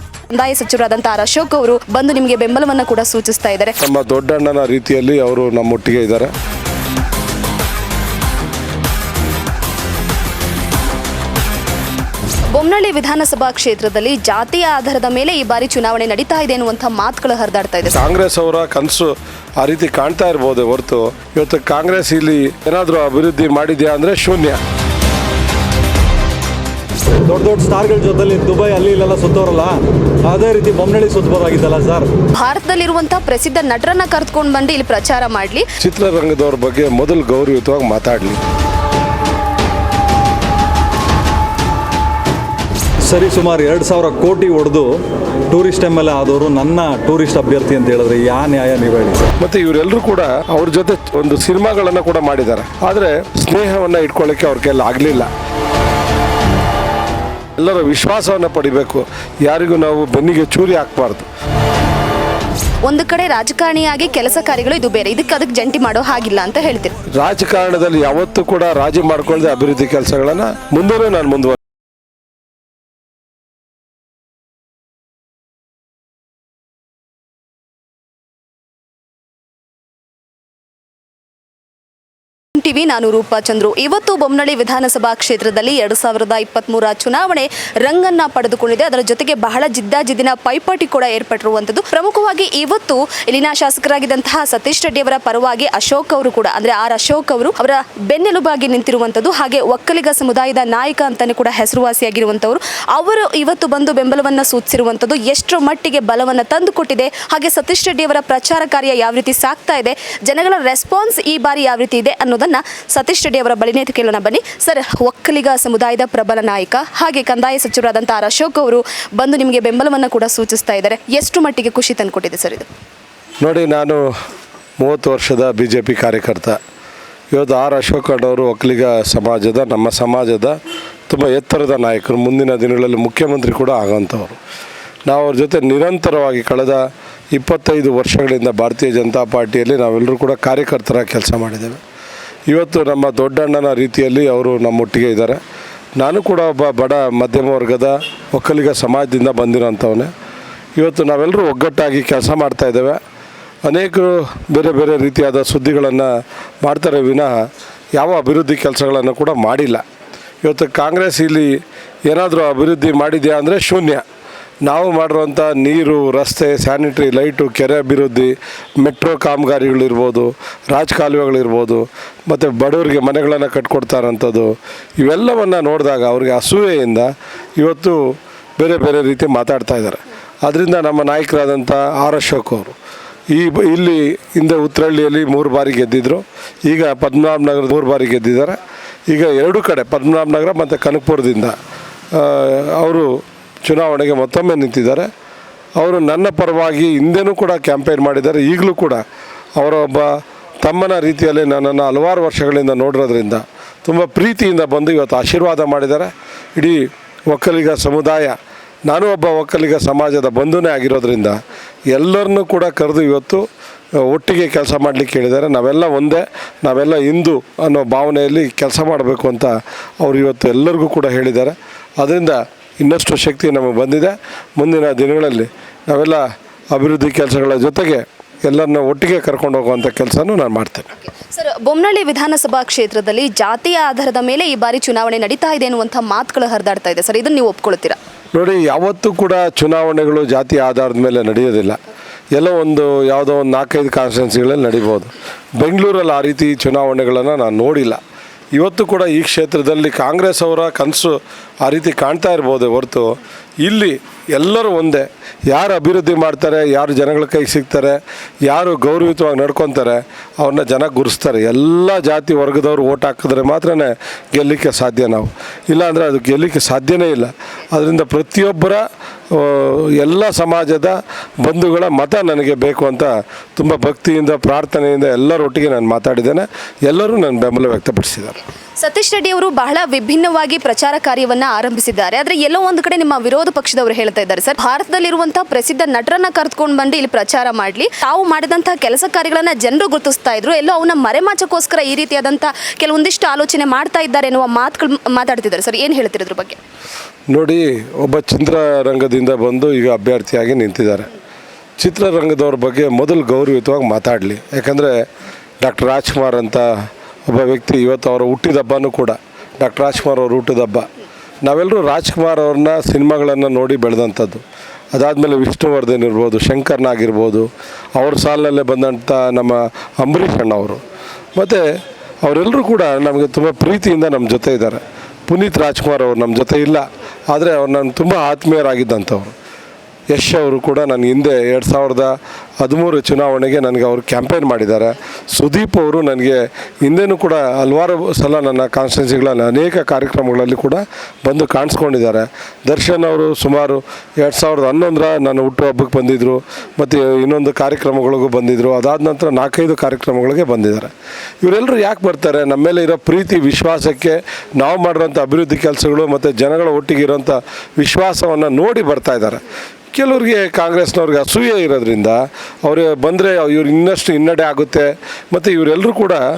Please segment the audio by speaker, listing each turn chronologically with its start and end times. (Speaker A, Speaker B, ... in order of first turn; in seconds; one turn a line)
Speaker A: 0.3-3.8
Speaker B: 3.8-6.3
Speaker A: 12.5-18.0
Speaker B: 17.9-24.6
Speaker C: 27.2-32.1
Speaker A: 32.3-35.7
Speaker B: 35.8-38.4
Speaker C: 43.0-49.3
Speaker B: 49.4-55.3
Speaker B: 57.6-61.2
Speaker A: 62.8-67.0
Speaker B: 67.1-71.6
Speaker A: 82.5-122.7
Speaker B: 123.4-124.1
Speaker B: 124.8-126.6
Speaker B: 127.3-130.6
Speaker B: 131.1-134.4
Speaker B: 135.1-141.8
Speaker B: 142.5-145.4
Speaker B: 146.0-150.1
Speaker B: 150.8-153.0
Speaker B: 153.6-156.1
Speaker B: 156.6-159.8
Speaker B: 160.4-164.0
Speaker B: 164.7-182.7
Speaker B: 183.3-188.6
Speaker B: 189.1-191.5
Speaker B: 192.1-193.1
Speaker B: 193.6-195.1
Speaker B: 195.8-199.0
Speaker B: 199.6-206.8
Speaker B: 207.3-208.3
Speaker B: 208.9-211.4
Speaker B: 211.9-213.4
Speaker B: 214.0-230.8
Speaker A: 231.0-238.0
Speaker B: 238.3-241.8
Speaker B: 242.3-248.0
Speaker B: 248.5-278.4
Speaker A: 278.8-296.6
Speaker B: 297.3-301.1
Speaker B: 301.8-304.9
Speaker B: 305.6-306.7
Speaker B: 307.3-310.9
Speaker B: 311.4-314.4
Speaker B: 314.9-320.8
Speaker B: 321.4-321.6
Speaker B: 322.2-329.3
Speaker B: 330.1-350.9
Speaker B: 351.4-366.2